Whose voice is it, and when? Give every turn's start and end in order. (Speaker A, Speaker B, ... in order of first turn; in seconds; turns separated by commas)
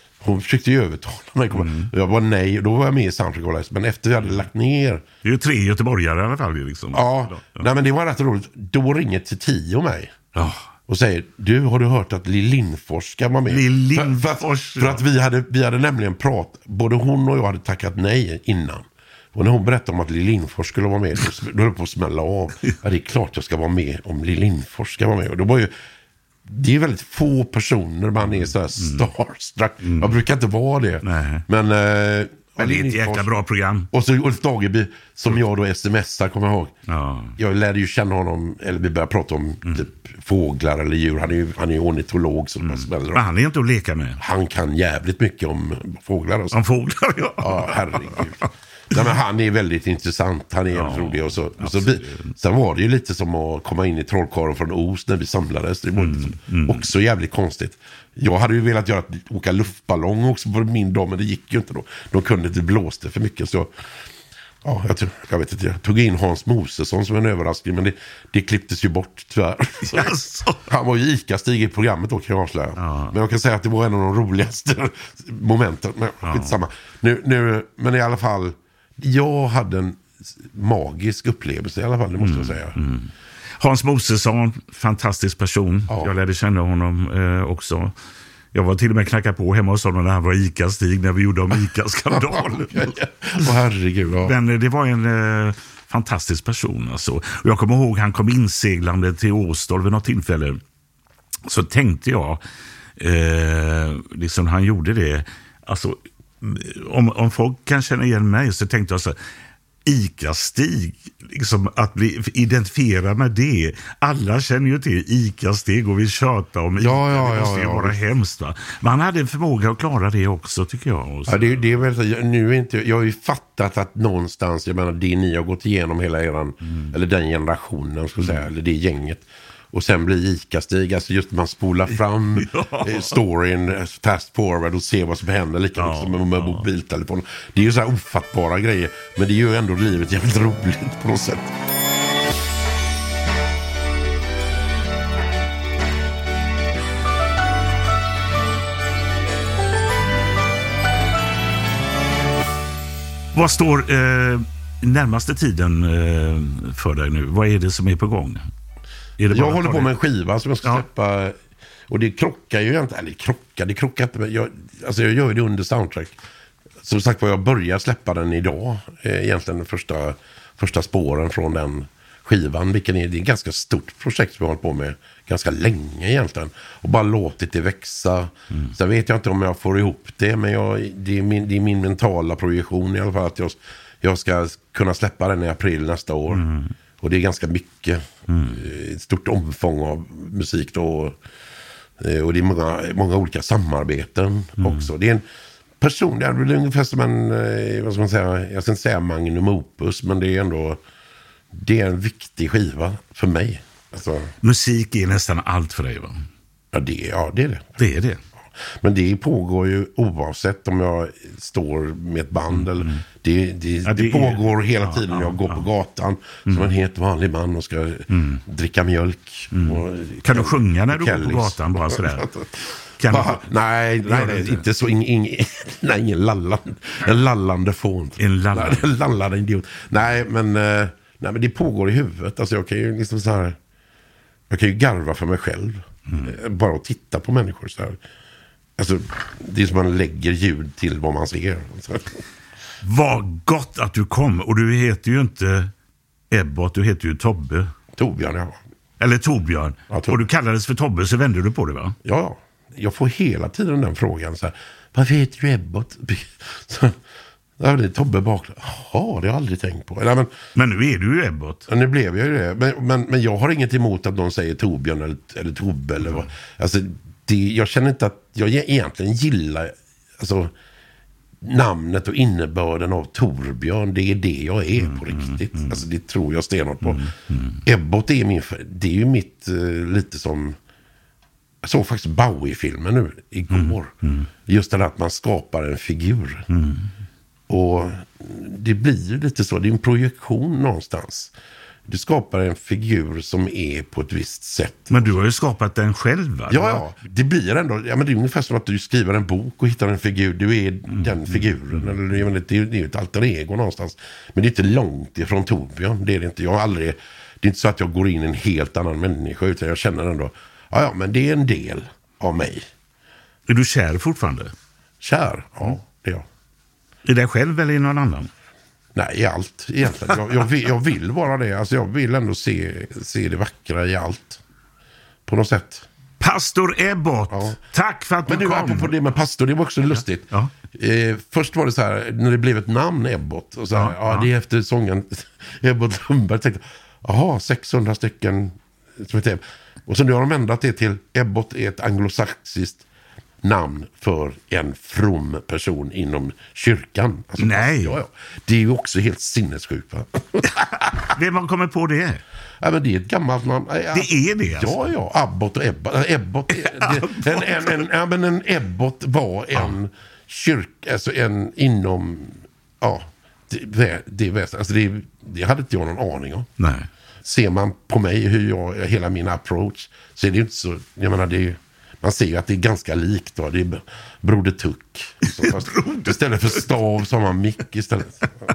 Speaker A: 0.2-5.0, Speaker B: 1.5-1.9, Speaker B: 5.2-7.7, Speaker A: 6.9-10.3, Speaker B: 10.3-10.7, Speaker A: 10.9-25.7, Speaker B: 13.5-15.0, Speaker A: 26.5-33.3, Speaker B: 28.3-29.1, Speaker B: 29.8-30.2, Speaker B: 31.0-31.4, Speaker B: 32.6-33.9, Speaker A: 33.9-36.7, Speaker B: 36.9-37.4, Speaker A: 37.4-43.3, Speaker B: 42.6-44.2, Speaker A: 44.2-46.6, Speaker B: 46.5-48.4, Speaker A: 47.4-63.7, Speaker B: 50.7-52.3, Speaker B: 56.0-56.9, Speaker A: 64.6-82.8, Speaker B: 69.9-70.7, Speaker B: 72.8-73.2, Speaker B: 76.2-76.5, Speaker B: 82.2-87.9, Speaker A: 85.9-86.1, Speaker B: 88.5-92.9, Speaker A: 92.1-94.4, Speaker B: 94.2-100.6, Speaker B: 101.5-102.4, Speaker B: 103.0-109.2, Speaker B: 109.8-121.6, Speaker A: 116.8-118.0, Speaker A: 121.3-141.6, Speaker B: 126.7-126.9, Speaker B: 128.2-128.4, Speaker B: 132.4-133.2, Speaker B: 135.8-136.7, Speaker B: 153.3-158.4, Speaker B: 159.2-159.9, Speaker A: 159.3-161.4, Speaker A: 161.9-166.2, Speaker A: 166.8-186.4, Speaker B: 186.3-186.7, Speaker A: 187.0-191.2, Speaker B: 188.3-188.6, Speaker A: 192.0-195.2, Speaker B: 194.6-194.9, Speaker A: 195.8-200.8, Speaker A: 201.5-204.3, Speaker B: 204.4-206.2, Speaker A: 206.7-207.8, Speaker B: 207.8-208.2, Speaker A: 208.8-233.6, Speaker B: 212.5-213.0, Speaker B: 213.9-215.7, Speaker B: 218.1-218.4, Speaker B: 219.5-222.3, Speaker B: 223.0-223.4, Speaker B: 224.1-224.6, Speaker B: 228.2-228.8, Speaker A: 234.5-238.0, Speaker A: 238.8-242.2, Speaker B: 242.8-245.7, Speaker B: 246.3-247.7, Speaker A: 247.9-248.6, Speaker B: 249.0-252.0, Speaker A: 249.9-250.2, Speaker A: 252.0-257.0, Speaker A: 257.6-260.3, Speaker B: 260.6-261.6, Speaker A: 261.7-270.5, Speaker A: 271.4-277.1, Speaker B: 274.8-275.8, Speaker B: 276.8-277.6, Speaker A: 277.6-280.6, Speaker A: 281.6-283.9, Speaker B: 283.5-284.3, Speaker A: 284.5-286.5, Speaker B: 286.5-286.9, Speaker A: 287.5-291.3, Speaker A: 291.9-295.2, Speaker B: 294.9-296.8, Speaker A: 296.5-312.7, Speaker B: 300.9-302.0, Speaker B: 313.5-314.5, Speaker A: 315.0-316.3, Speaker B: 317.1-318.3, Speaker A: 318.9-324.4, Speaker A: 325.3-325.9, Speaker B: 326.2-328.9, Speaker A: 327.3-327.6, Speaker A: 328.2-342.9, Speaker B: 329.9-330.5, Speaker B: 333.8-334.3, Speaker A: 343.4-350.9, Speaker B: 347.4-348.0, Speaker B: 350.9-352.2, Speaker A: 352.6-366.5, Speaker B: 353.9-354.9, Speaker B: 356.6-357.8, Speaker B: 366.6-366.9, Speaker A: 367.2-378.3, Speaker B: 375.3-376.6